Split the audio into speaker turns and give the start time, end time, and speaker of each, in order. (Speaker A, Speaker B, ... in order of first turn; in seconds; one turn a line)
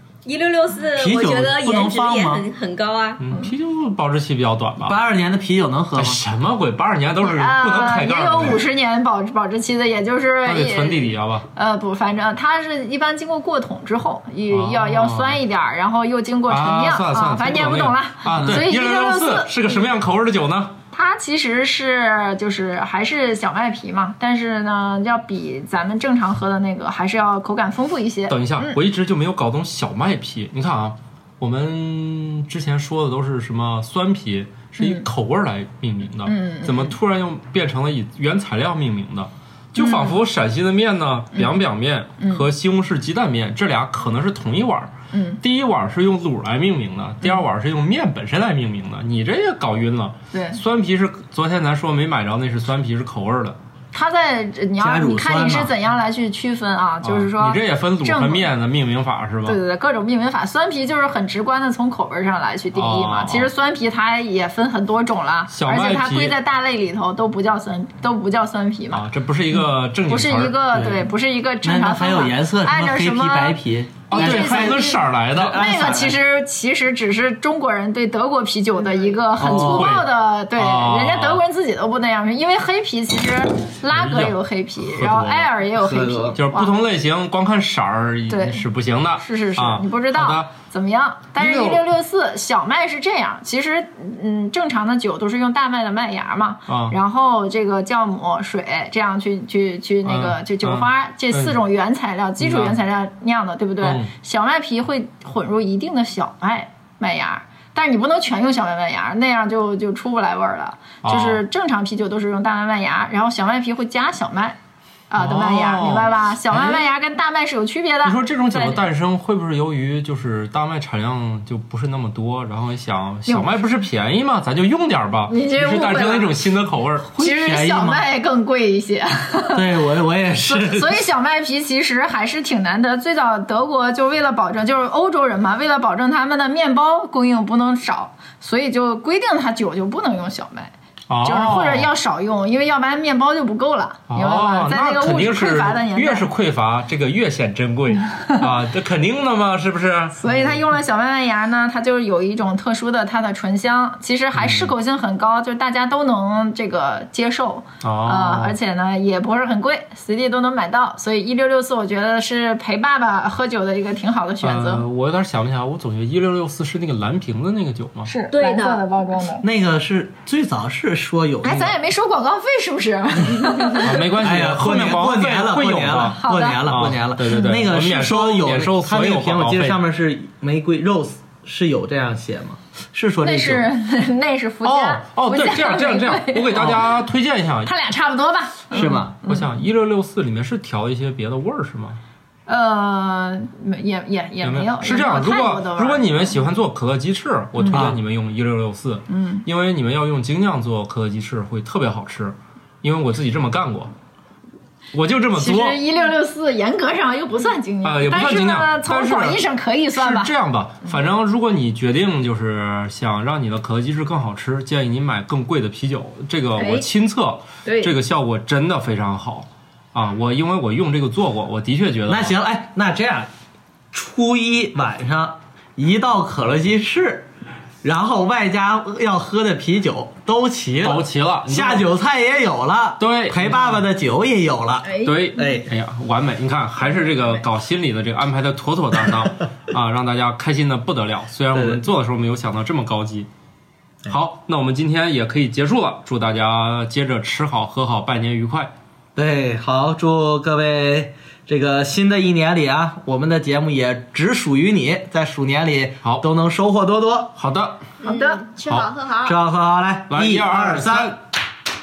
Speaker A: 0.2-3.2
Speaker B: 1.0-2.5
Speaker C: 3.2-5.0
Speaker B: 4.8-6.2
Speaker C: 6.0-8.6
Speaker D: 7.2-19.8
Speaker C: 10.4-11.5
Speaker C: 14.5-15.4
Speaker C: 16.5-20.7
Speaker D: 20.9-28.8
Speaker C: 28.3-53.6
Speaker D: 34.8-35.1
Speaker D: 36.3-36.9
Speaker D: 39.8-40.2
Speaker D: 41.3-41.6
Speaker D: 42.2-42.5
Speaker D: 45.1-45.4
Speaker D: 50.3-50.6
Speaker D: 53.9-58.5
Speaker B: 54.8-55.7
Speaker C: 57.0-59.6
Speaker D: 59.4-69.1
Speaker C: 62.7-63.5
Speaker C: 65.5-66.4
Speaker C: 68.9-71.1
Speaker D: 70.1-73.6
Speaker B: 71.6-76.2
Speaker C: 74.1-75.6
Speaker D: 74.1-86.7
Speaker B: 79.4-80.0
Speaker C: 79.4-81.4
Speaker C: 83.9-85.5
Speaker B: 85.8-86.4
Speaker C: 86.4-90.5
Speaker D: 88.3-88.7
Speaker D: 89.2-114.6
Speaker C: 91.4-91.8
Speaker C: 96.7-97.0
Speaker C: 100.0-101.5
Speaker C: 102.4-102.8
Speaker C: 103.8-104.1
Speaker C: 111.0-111.4
Speaker D: 115.1-118.9
Speaker C: 115.2-116.8
Speaker C: 118.0-127.1
Speaker D: 123.3-123.6
Speaker D: 125.3-126.4
Speaker B: 127.1-128.1
Speaker D: 127.2-129.6
Speaker B: 129.5-131.1
Speaker D: 130.4-140.7
Speaker C: 141.1-141.9
Speaker D: 141.2-146.3
Speaker C: 144.1-150.6
Speaker D: 150.2-164.8
Speaker C: 154.3-154.7
Speaker C: 157.8-158.6
Speaker C: 164.4-168.1
Speaker D: 168.1-169.4
Speaker A: 168.3-168.8
Speaker B: 169.4-171.8
Speaker D: 171.4-174.1
Speaker C: 173.8-179.8
Speaker B: 174.2-183.7
Speaker D: 176.2-176.7
Speaker D: 183.2-186.9
Speaker C: 184.6-187.7
Speaker D: 187.7-189.5
Speaker B: 188.7-189.2
Speaker C: 189.2-192.0
Speaker D: 192.5-196.3
Speaker C: 194.4-203.9
Speaker D: 197.6-197.9
Speaker B: 197.7-198.0
Speaker D: 199.1-199.4
Speaker C: 204.9-205.8
Speaker D: 205.4-210.3
Speaker C: 207.8-209.4
Speaker C: 209.9-222.4
Speaker D: 216.6-216.9
Speaker D: 217.7-217.9
Speaker B: 222.1-223.3
Speaker B: 223.9-227.3
Speaker B: 227.8-235.7
Speaker C: 230.8-231.9
Speaker C: 233.0-233.8
Speaker D: 234.8-235.5
Speaker C: 235.0-243.3
Speaker B: 241.5-241.8
Speaker C: 244.1-248.7
Speaker B: 249.2-257.3
Speaker C: 257.4-257.9
Speaker D: 258.0-258.6
Speaker A: 258.0-259.3
Speaker C: 258.6-258.9
Speaker B: 259.2-261.2
Speaker C: 260.1-261.2